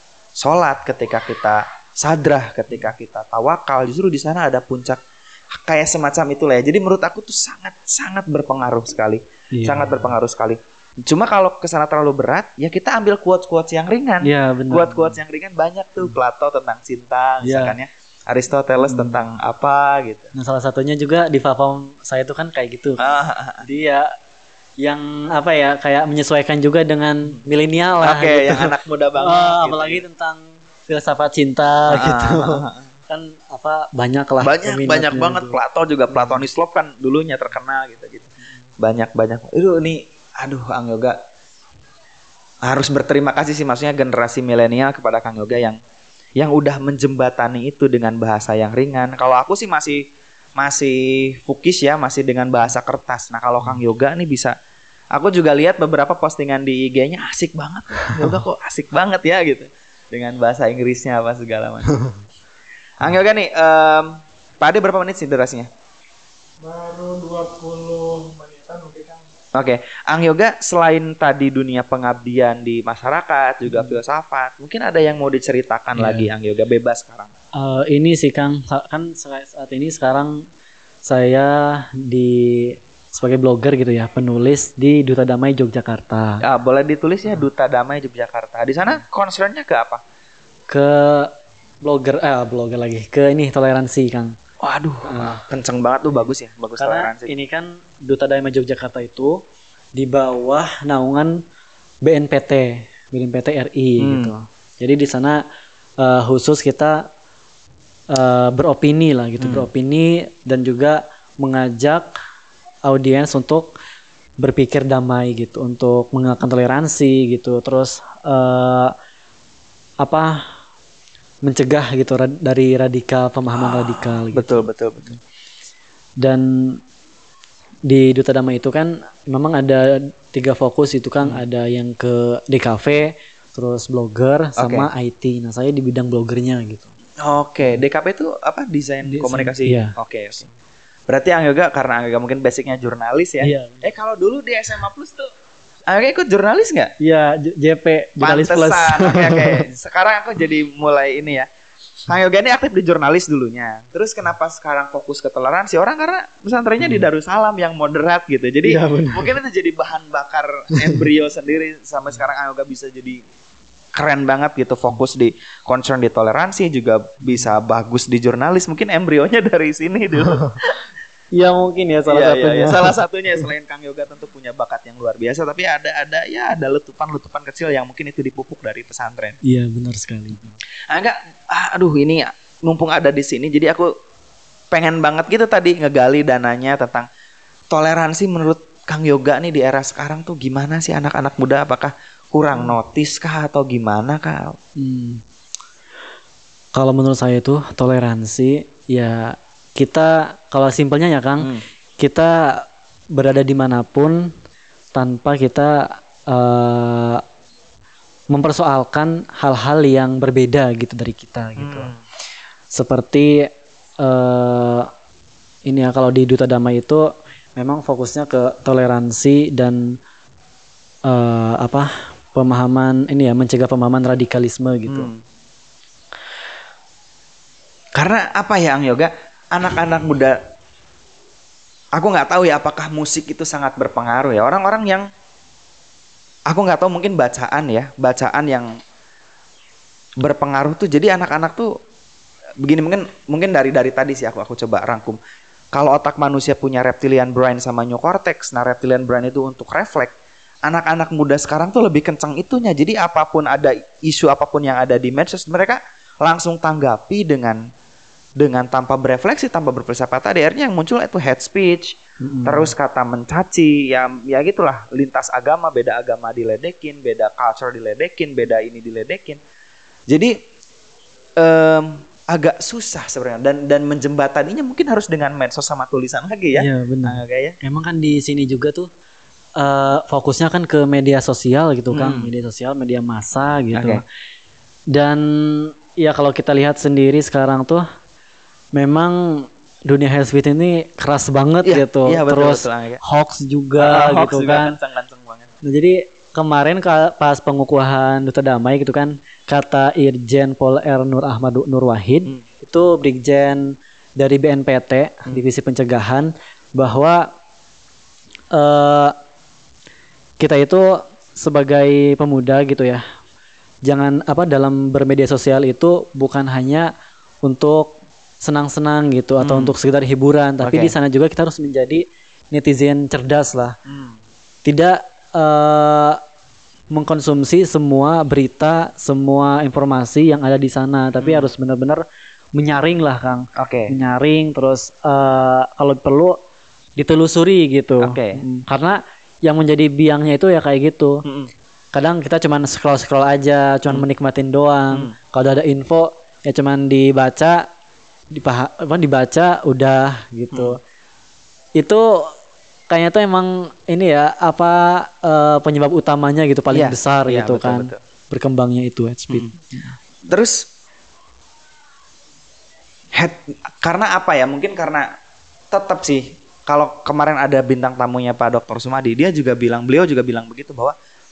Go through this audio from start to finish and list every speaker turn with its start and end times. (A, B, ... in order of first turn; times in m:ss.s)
0:00.4-0:05.0 A
0:05.5-0:20.3 A
0:09.5-0:10.0 B
0:14.2-0:15.2 B
0:17.4-0:17.8 B
0:18.9-0:19.2 B
0:20.4-0:23.0 B
0:23.0-0:23.6 A
0:23.6-0:24.1 B
0:24.8-0:35.6 B
0:28.0-0:30.0 A
0:31.9-0:32.8 A
0:34.4-0:41.2 A
0:36.1-0:36.4 B
0:42.6-0:45.8 A
0:46.4-0:54.6 A
0:55.1-1:02.0 A
0:58.0-0:58.4 B
1:03.0-1:05.7 A
1:06.6-1:09.2 C
1:09.6-1:17.3 A
1:16.0-1:16.3 B
1:17.6-1:20.5 B
1:21.0-1:26.4 B
1:26.4-1:30.0 A
1:30.7-1:31.3 B
1:31.8-1:34.4 B
1:34.6-1:37.3 A
1:35.0-1:35.4 B
1:36.8-1:39.4 B
1:40.0-1:41.4 B
1:42.0-1:45.4 B
1:44.0-1:44.3 A
1:46.0-1:47.1 B
1:48.1-1:52.1 B
1:49.4-1:49.7 A
1:52.9-1:53.7 B
1:54.4-1:58.9 B
2:00.0-2:00.4 B
2:01.4-2:04.7 B
2:03.5-2:05.2 A
2:06.2-2:06.8 B
2:07.9-2:16.9 B
2:14.6-2:14.9 A
2:17.2-2:20.5 A
2:19.0-2:20.0 B
2:21.1-2:25.3 A
2:23.4-2:23.9 B
2:25.9-2:26.9 A
2:27.0-2:29.7 B
2:28.2-2:31.5 A
2:32.1-2:43.2 A
2:38.6-2:39.4 B
2:40.8-2:41.0 B
2:44.0-2:50.8 A
2:51.3-2:53.0 B
2:52.1-2:59.4 A
2:59.4-3:00.5 B
3:00.9-3:03.9 A
3:04.7-3:07.1 A
3:07.7-3:14.6 A
3:14.8-3:15.2 B
3:16.8-3:24.3 B
3:24.9-3:27.2 B
3:28.3-3:31.9 B
3:31.6-3:32.0 A
3:32.7-3:33.5 B
3:34.0-3:34.9 B
3:35.7-3:40.0 B
3:41.1-3:45.1 B
3:44.9-3:45.2 A
3:48.0-3:50.4 A
3:52.0-3:55.1 A
3:56.5-3:58.7 A
4:00.2-4:01.7 A
4:02.6-4:05.2 A
4:05.7-4:10.2 A
4:10.7-4:17.6 A
4:18.4-4:29.4 A
4:22.2-4:22.7 B
4:30.1-4:30.4 A
4:31.4-4:37.6 A
4:36.6-4:38.9 B
4:39.6-4:44.0 B
4:41.9-4:42.3 A
4:43.7-4:44.0 A
4:44.9-4:47.8 B
4:48.7-4:54.8 B
4:51.6-4:53.0 A
4:53.8-4:55.5 A
4:55.6-5:07.3 B
5:08.5-5:09.2 B
5:10.4-5:13.0 B
5:13.8-5:16.9 B
5:17.4-5:23.8 B
5:19.4-5:19.7 A
5:20.6-5:20.9 A
5:23.9-5:24.2 A
5:24.6-5:26.2 B
5:26.9-5:36.4 B
5:31.2-5:31.5 A
5:33.6-5:33.9 A
5:37.0-5:41.2 B
5:38.0-5:38.4 A
5:41.2-5:41.5 A
5:41.9-5:47.7 B
5:48.3-5:50.8 B
5:51.8-5:52.3 B
5:52.9-5:59.9 B
5:56.7-5:58.0 A
5:59.3-5:59.6 A
6:00.3-6:00.7 A
6:03.1-6:05.1 A
6:05.7-6:11.0 A